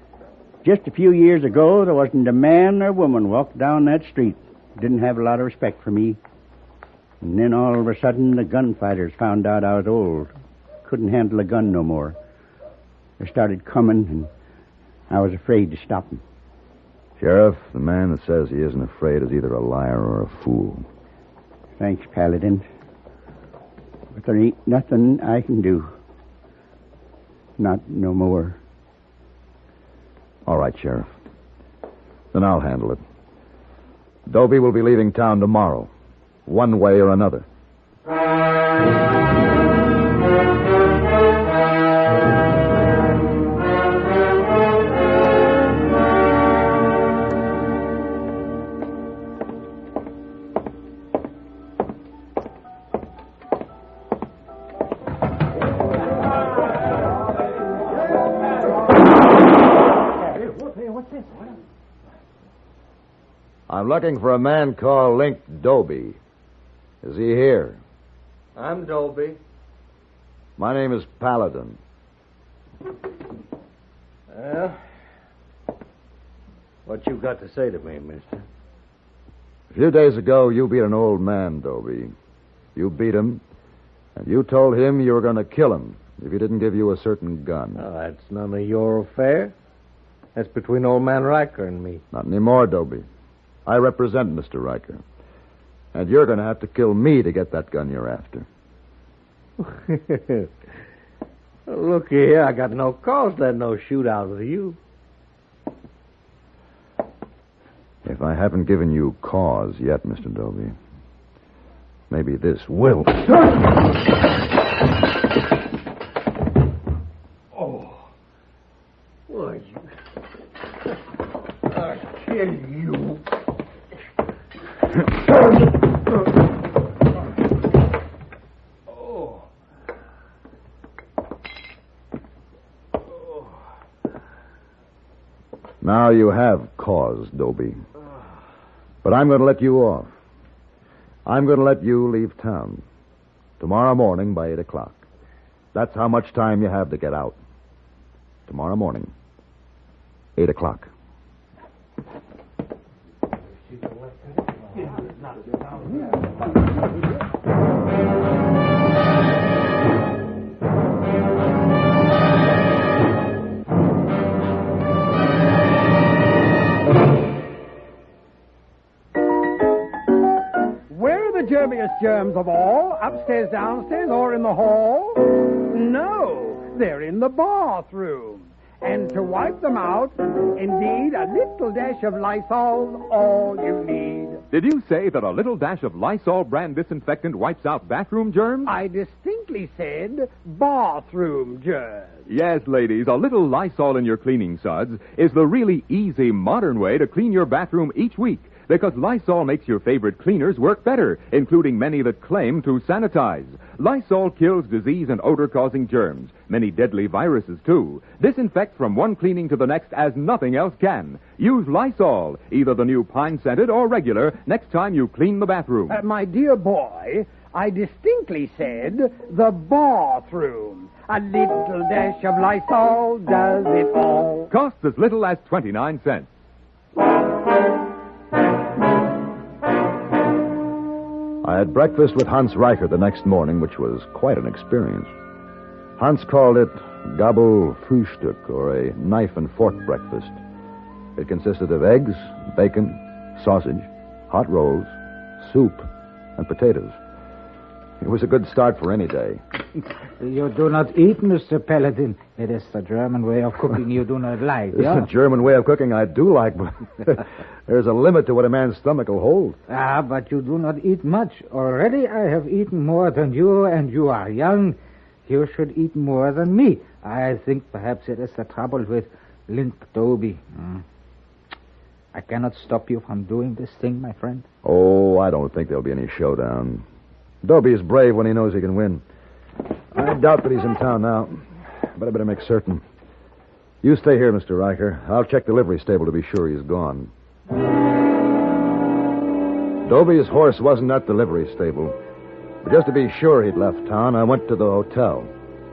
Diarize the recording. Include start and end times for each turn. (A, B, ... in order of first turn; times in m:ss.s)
0:00.6-0:06.2 A
0:07.2-0:10.3 A
0:10.8-0:12.2 A
0:13.2-0:14.3 A
0:15.1-0:16.2 A
0:17.2-0:20.8 B
0:21.8-0:22.6 A
0:24.1-0:25.9 A
0:27.6-0:28.6 A
0:30.4-0:31.1 B
0:32.3-0:33.0 B
0:34.3-0:35.9 B
0:36.4-0:37.4 B
1:00.3-1:01.3 C
1:03.7-1:06.2 B
1:07.0-1:07.8 B
1:08.6-1:09.4 C
1:10.6-1:11.8 B
1:14.3-1:14.8 C
1:16.8-1:18.4 C
1:19.7-1:22.1 B
1:22.7-1:23.4 B
1:24.2-1:27.8 B
1:27.8-1:29.5 C
1:30.3-1:32.0 C
1:32.1-1:33.1 B
1:33.6-1:35.0 B
1:35.9-1:38.4 B
1:39.6-1:40.5 C
1:41.7-1:44.8 C
1:48.0-1:50.8 B
1:52.1-1:53.4 B
1:57.5-1:58.0 C
1:59.3-1:59.8 C
2:01.8-2:03.2 C
2:15.8-2:17.8 B
2:19.0-2:20.1 B
2:21.2-2:22.8 B
2:23.6-2:25.0 B
2:25.7-2:27.4 B
2:28.5-2:29.1 B
2:30.4-2:30.9 B
2:50.9-3:04.4 D
3:04.5-3:08.7 E
3:08.6-3:12.2 D
3:12.3-3:36.0 E
3:35.9-3:44.5 D
3:44.5-3:46.3 E
3:51.4-3:55.1 B
3:56.0-4:00.4 B
4:01.2-4:07.0 B
4:08.0-4:09.4 B
4:10.2-4:15.1 F
4:14.7-4:19.6 B
4:19.7-4:30.8 F
4:32.1-4:34.4 F
4:34.6-4:36.8 B
4:37.4-4:39.0 B
4:39.9-4:42.8 B
4:43.8-4:47.1 B
4:49.8-4:52.0 B
4:52.6-4:55.3 B